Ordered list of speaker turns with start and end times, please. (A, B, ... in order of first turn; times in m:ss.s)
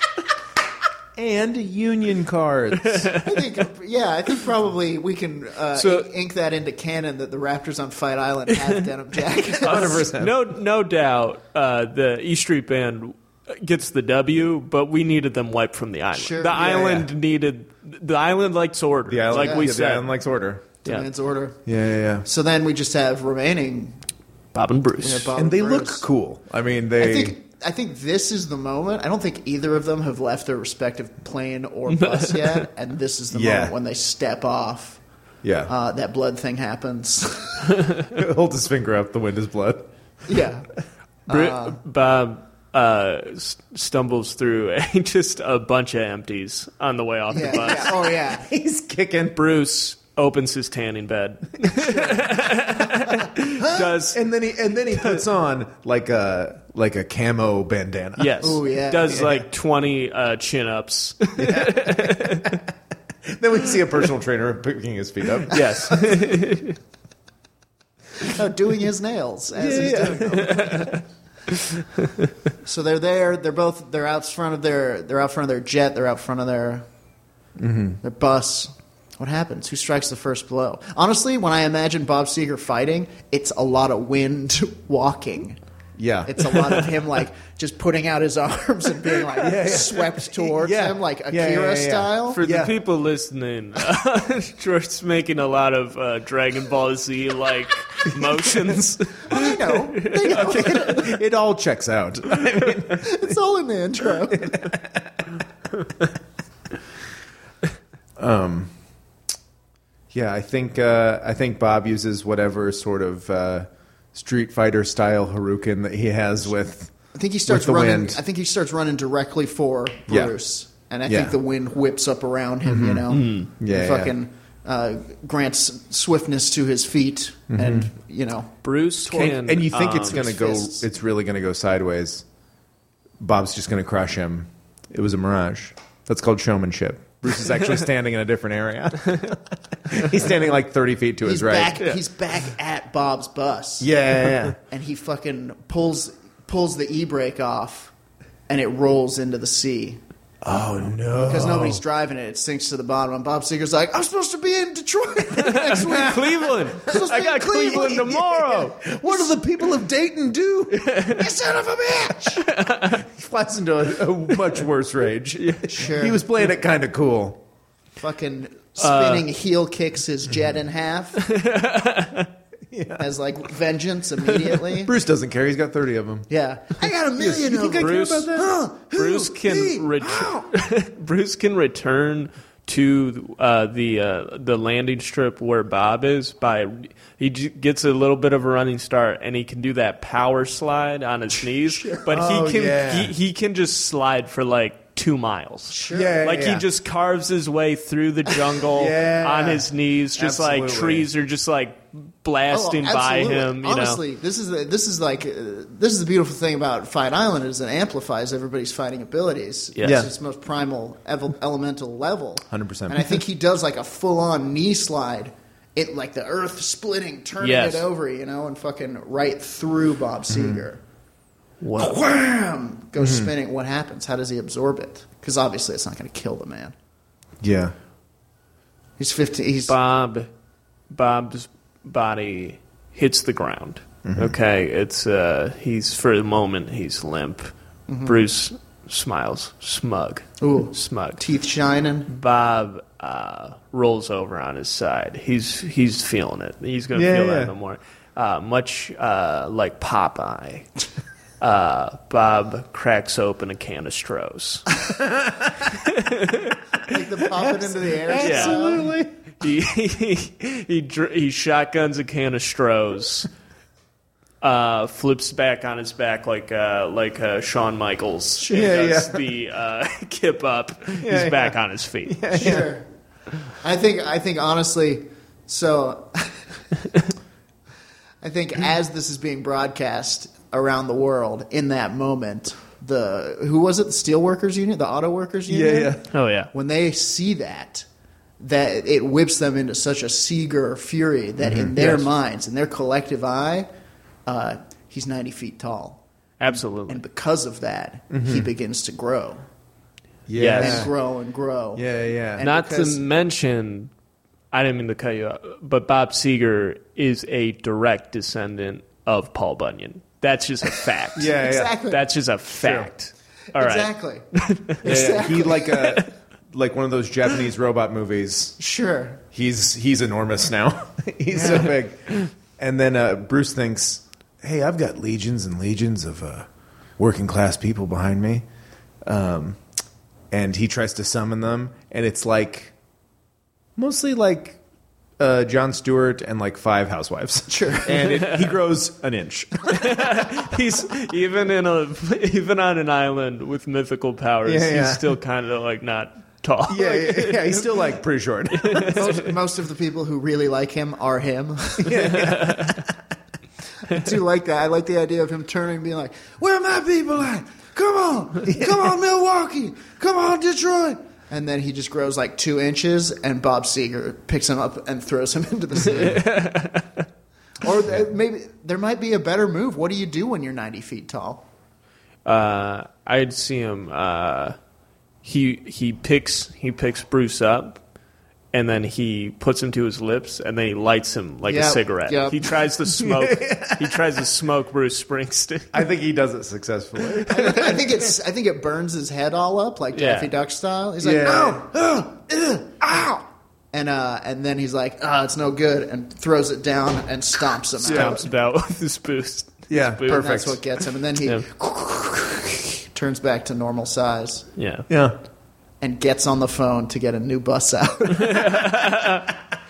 0:01.2-0:03.2 A
0:02.8-0:03.3 B
0:03.2-0:10.0 C
0:05.7-0:06.1 B
0:09.6-0:10.5 A
0:09.6-0:20.1 B
0:16.1-0:17.1 C
0:19.1-0:20.7 A
0:19.3-0:19.7 C
0:20.8-0:21.6 C
0:21.6-0:22.3 A
0:22.2-0:24.0 C
0:24.5-0:25.4 B
0:25.0-0:26.0 C
0:25.4-0:27.4 A
0:27.0-0:35.0 C
0:32.0-0:32.6 B
0:33.3-0:33.8 A
0:35.4-0:35.7 A
0:35.7-0:37.9 C
0:38.1-0:39.9 A
0:40.3-0:40.7 C
0:41.3-0:41.8 C
0:41.3-0:48.0 B
0:47.3-0:48.5 C
0:47.5-0:49.4 A
0:49.3-0:54.2 B
0:51.7-0:53.2 C
0:53.6-0:59.1 A
0:54.9-0:55.2 B
0:58.2-1:02.6 B
0:58.4-0:59.3 C
1:01.4-1:02.6 A
1:03.3-1:06.2 A
1:05.5-1:06.8 B
1:08.2-1:10.9 C
1:09.5-1:10.9 A
1:10.0-1:11.0 B
1:12.6-1:16.8 C
1:17.6-1:18.0 A
1:18.0-1:25.6 C
1:26.0-1:26.5 A
1:26.3-1:32.4 C
1:29.3-1:32.8 A
1:32.3-1:41.0 B
1:39.3-1:41.2 C
1:40.3-1:43.3 A
1:42.9-1:44.6 C
1:44.1-1:45.2 A
1:48.2-1:48.7 A
1:50.1-1:56.9 A
1:57.1-2:08.5 C
1:57.5-1:58.2 A
2:00.1-2:00.4 A
2:01.1-2:01.4 A
2:02.6-2:04.2 A
2:03.1-2:03.5 B
2:07.5-2:07.9 A
2:08.6-2:10.3 B
2:09.1-2:12.2 A
2:10.0-2:10.9 C
2:13.2-2:21.8 A
2:21.2-2:23.9 C
2:23.8-2:24.6 A
2:24.7-2:27.9 C
2:28.5-2:30.0 C
2:30.4-2:31.8 A
2:31.1-2:39.3 C
2:35.4-2:39.2 B
2:35.8-2:36.2 A
2:36.9-2:47.4 A
2:40.8-2:41.2 B
2:42.4-2:43.0 B
2:45.4-2:45.9 B
2:45.7-2:46.2 C
2:48.0-2:51.2 C
2:48.8-2:49.3 B
2:51.2-2:52.3 B
2:52.7-2:53.1 A
2:53.0-2:54.9 C
2:54.4-2:56.3 A
2:56.3-2:59.0 C
2:56.8-3:00.5 A
2:57.7-3:24.0 B
3:11.6-3:12.1 C
3:12.1-3:13.1 A
3:15.7-3:16.2 C
3:15.9-3:16.7 A
3:18.7-3:21.1 A
3:22.5-3:40.8 C
3:29.8-3:30.0 B
3:29.8-3:30.1 A
3:32.5-3:33.2 A
3:37.4-3:37.9 B
3:40.3-3:40.6 A
3:41.6-3:42.0 B
3:41.8-3:46.7 C
3:43.0-3:43.3 A
3:47.4-3:47.7 A
3:49.0-3:49.8 C
3:49.7-3:50.3 B
3:50.9-3:57.5 B
3:54.0-3:54.4 A
3:57.9-3:58.2 C
3:58.0-4:01.2 B
4:00.4-4:02.1 C
4:02.1-4:10.7 B
4:06.9-4:07.5 A
4:11.4-4:14.7 B
4:15.0-4:15.6 A
4:15.7-4:16.6 B
4:16.9-4:18.9 C
4:17.3-4:19.3 A
4:18.2-4:18.8 B
4:19.4-4:23.3 B
4:24.4-4:32.7 B
4:28.4-4:29.0 C
4:28.5-4:29.3 A
4:31.0-4:32.7 A
4:32.3-4:32.9 C
4:33.6-4:36.4 C
4:38.2-4:47.9 C
4:45.5-4:46.0 A
4:46.1-4:46.5 B
4:48.4-4:53.7 C
4:51.4-4:52.0 A
4:51.8-4:52.1 B
4:54.3-4:56.0 C
4:56.4-4:57.0 B
4:56.9-4:59.4 C
4:58.1-4:58.5 A
5:00.3-5:00.9 A
5:00.4-5:00.9 B
5:00.5-5:03.0 C
5:01.8-5:02.5 A
5:02.4-5:03.9 B
5:04.5-5:11.4 B
5:11.2-5:11.8 A
5:11.2-5:12.0 C
5:11.9-5:16.1 B
5:12.5-5:12.9 A
5:13.5-5:15.9 C
5:14.8-5:18.6 A
5:18.6-5:19.2 C
5:19.3-5:26.5 A
5:21.3-5:21.8 C
5:27.0-5:28.4 A
5:29.0-5:29.6 A
5:30.3-5:32.7 A
5:33.8-5:34.6 A
5:35.2-5:40.4 A
5:37.5-5:38.1 C
5:38.0-5:38.5 B
5:39.7-5:47.8 B
5:44.4-5:45.2 A
5:46.7-5:49.2 A
5:48.5-5:49.3 B
5:48.8-5:52.3 C
5:51.8-5:52.9 A
5:52.0-5:52.9 B
5:53.9-6:06.3 C
5:58.4-5:59.1 A
6:05.9-6:07.0 B
6:07.6-6:11.4 C
6:12.2-6:14.6 B
6:15.2-6:17.8 B
6:18.5-6:25.8 B
6:21.5-6:22.6 C
6:22.9-6:24.1 A
6:25.7-6:27.8 A
6:27.3-6:32.6 C
6:29.9-6:30.3 B
6:31.0-6:33.2 A
6:33.7-6:38.3 C
6:37.8-6:40.4 B
6:37.8-6:38.2 A
6:39.7-6:40.6 A
6:40.1-6:44.5 C
6:44.6-6:44.9 B
6:44.9-6:45.2 A
6:45.8-6:49.0 C
6:48.2-6:49.3 B